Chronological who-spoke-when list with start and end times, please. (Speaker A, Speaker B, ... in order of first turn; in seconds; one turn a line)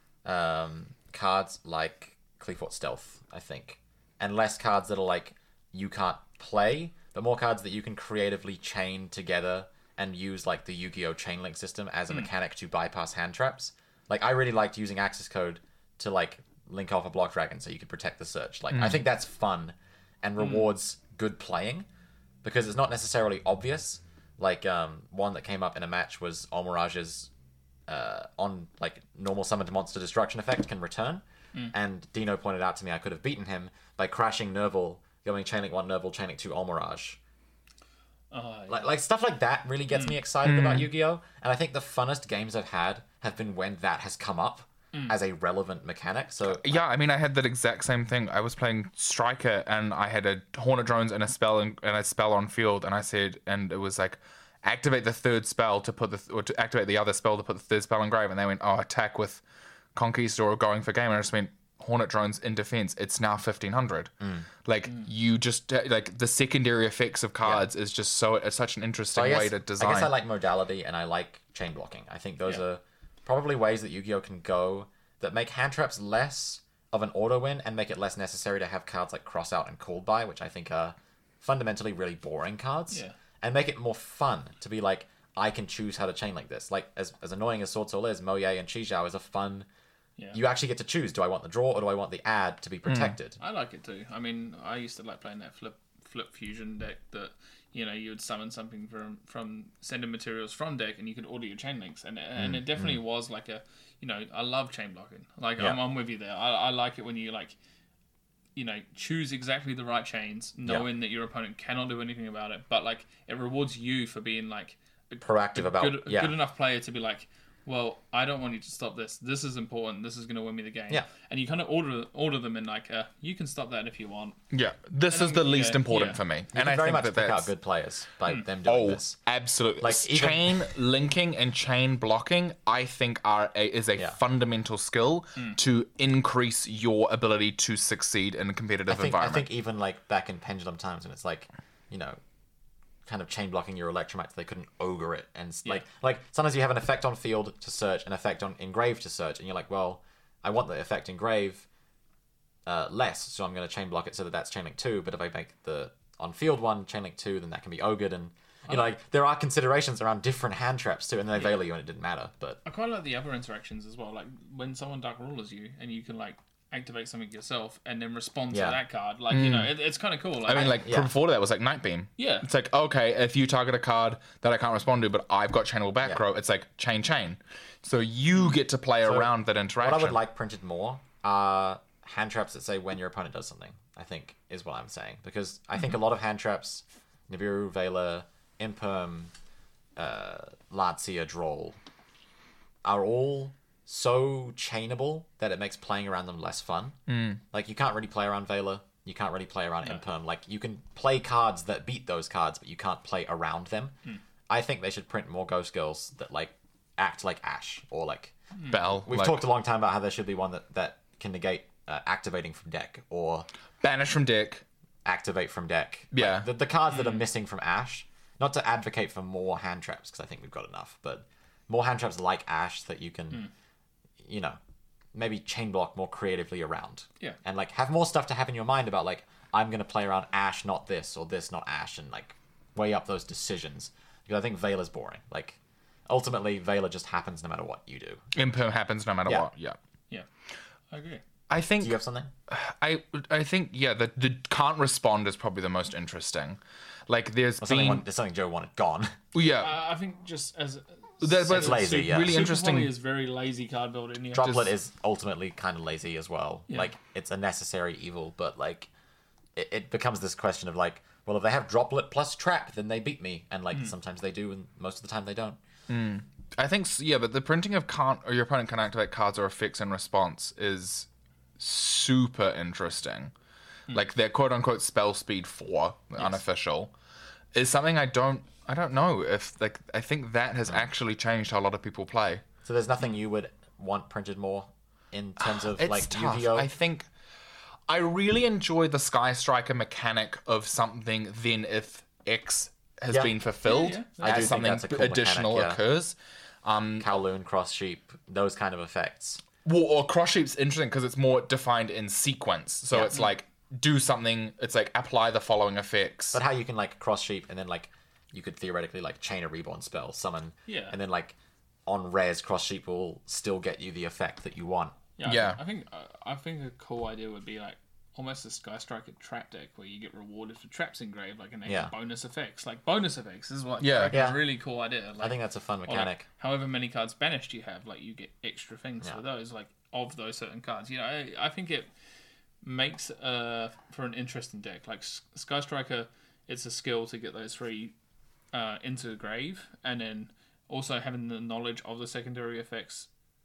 Speaker A: 0.2-21.9
Speaker B: 18.7-19.0
Speaker C: 20.4-20.7
Speaker A: 22.4-27.3
Speaker A: 27.9-37.2
Speaker C: 38.3-38.9
Speaker A: 38.7-46.8
Speaker B: 40.4-40.9
Speaker B: 46.5-59.4
Speaker B: 60.0-64.1
Speaker A: 64.2-64.5
Speaker B: 64.7-70.1
Speaker A: 69.1-89.7
Speaker A: 90.3-93.4
Speaker B: 92.9-93.2
Speaker C: 93.4-107.6
Speaker A: 102.4-103.0
Speaker C: 108.6-124.4
Speaker A: 115.2-116.3
Speaker B: 124.5-127.5
Speaker C: 125.1-126.2
Speaker A: 126.5-129.2
Speaker B: 128.6-139.5
Speaker A: 129.8-130.7
Speaker A: 138.9-142.2
Speaker A: 143.1-151.7
Speaker A: 152.7-162.6
Speaker C: 162.7-170.8
Speaker A: 168.5-168.8
Speaker B: 169.3-169.8
Speaker B: 170.5-180.2
Speaker A: 170.7-171.1
Speaker C: 172.2-172.5
Speaker A: 178.4-179.3
Speaker A: 179.8-189.3
Speaker A: 190.0-191.8
Speaker A: 192.8-197.0
Speaker B: 197.1-197.4
Speaker A: 197.5-203.9
Speaker A: 204.5-208.3
Speaker B: 208.7-209.4
Speaker A: 209.1-213.5
Speaker B: 213.8-214.6
Speaker A: 215.1-223.5
Speaker B: 216.1-216.5
Speaker C: 216.9-217.2
Speaker A: 224.2-224.6
Speaker A: 225.1-238.3
Speaker B: 238.3-239.8
Speaker C: 240.9-241.2
Speaker B: 241.5-242.0
Speaker A: 241.8-242.3
Speaker B: 242.5-248.0
Speaker A: 247.6-249.2
Speaker B: 249.3-249.8
Speaker C: 249.6-254.7
Speaker B: 251.2-252.9
Speaker A: 251.5-252.3
Speaker A: 254.3-258.9
Speaker A: 259.6-265.6
Speaker B: 265.9-271.1
Speaker B: 271.6-273.3
Speaker B: 273.9-276.9
Speaker B: 277.6-282.4
Speaker A: 282.6-286.7
Speaker B: 285.4-287.1
Speaker B: 287.9-297.1
Speaker C: 293.6-294.5
Speaker A: 294.2-295.8
Speaker A: 297.0-299.4
Speaker B: 299.6-306.4
Speaker A: 302.9-303.3
Speaker A: 306.3-315.0
Speaker C: 310.7-311.0
Speaker C: 315.2-331.9
Speaker B: 315.2-315.6
Speaker A: 321.7-321.9
Speaker B: 323.8-324.2
Speaker A: 324.1-324.4
Speaker A: 325.2-326.2
Speaker C: 332.6-337.9
Speaker C: 338.5-343.1